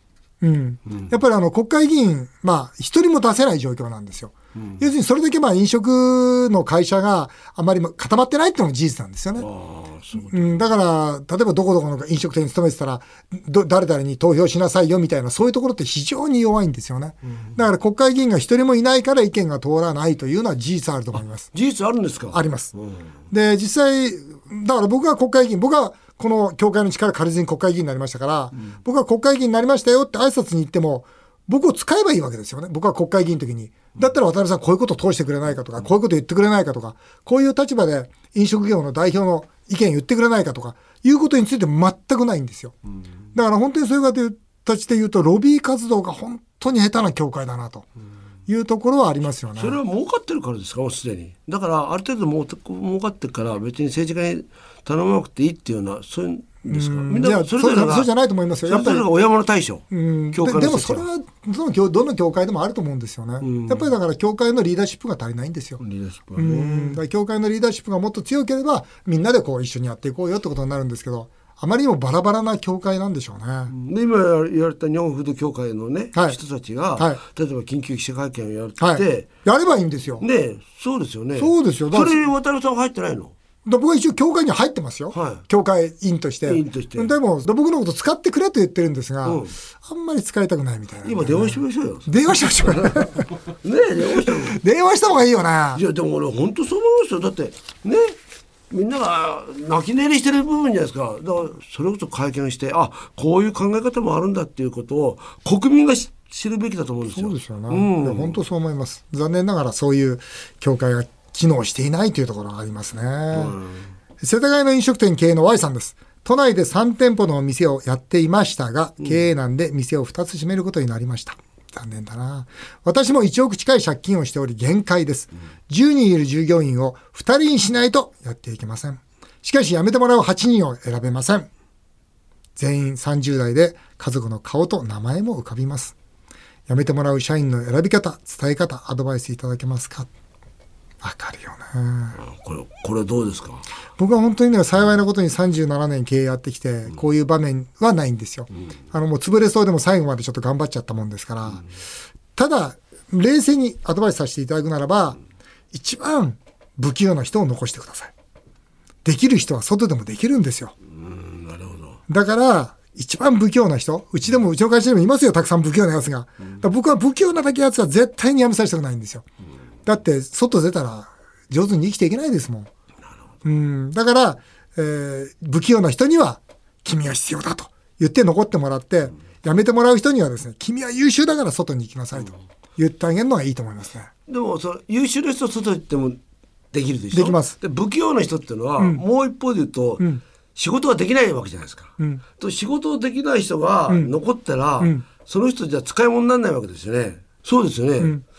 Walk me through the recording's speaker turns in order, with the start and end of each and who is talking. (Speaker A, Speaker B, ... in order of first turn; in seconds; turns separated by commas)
Speaker A: 0.4-9.5, Speaker B: 4.5-4.8, Speaker B: 9.4-10.7, Speaker A: 10.2-21.5, Speaker B: 21.1-23.1, Speaker A: 22.3-22.7, Speaker A: 23.3-42.8, Speaker A: 43.3-47.9, Speaker A: 48.5-49.8, Speaker B: 49.5-58.1, Speaker A: 56.6-59.0, Speaker B: 58.7-61.0, Speaker A: 59.9-65.8, Speaker B: 63.4-63.9, Speaker B: 65.8-67.0, Speaker A: 66.3-73.7, Speaker B: 73.7-79.3, Speaker A: 77.0-77.2, Speaker A: 78.8-80.2, Speaker B: 80.2-83.3, Speaker A: 81.4-82.3, Speaker A: 83.7-93.3, Speaker B: 85.1-85.4, Speaker B: 86.5-87.1, Speaker B: 89.2-89.5, Speaker B: 91.0-94.6, Speaker A: 94.2-95.8, Speaker B: 95.7-98.2, Speaker B: 98.7-108.4, Speaker A: 107.1-113.6, Speaker B: 113.3-113.8, Speaker A: 114.2-131.5, Speaker A: 132.6-135.9, Speaker A: 136.7-140.1, Speaker A: 141.0-142.2, Speaker B: 142.2-143.6, Speaker A: 144.0-151.6, Speaker A: 152.3-155.2, Speaker A: 155.7-158.1, Speaker A: 159.0-160.7, Speaker B: 160.9-162.0, Speaker A: 162.1-169.2, Speaker A: 169.8-172.7, Speaker A: 173.4-184.1, Speaker B: 184.3-186.2, Speaker B: 186.7-190.0, Speaker A: 187.1-187.6, Speaker B: 190.5-198.1, Speaker A: 194.8-195.0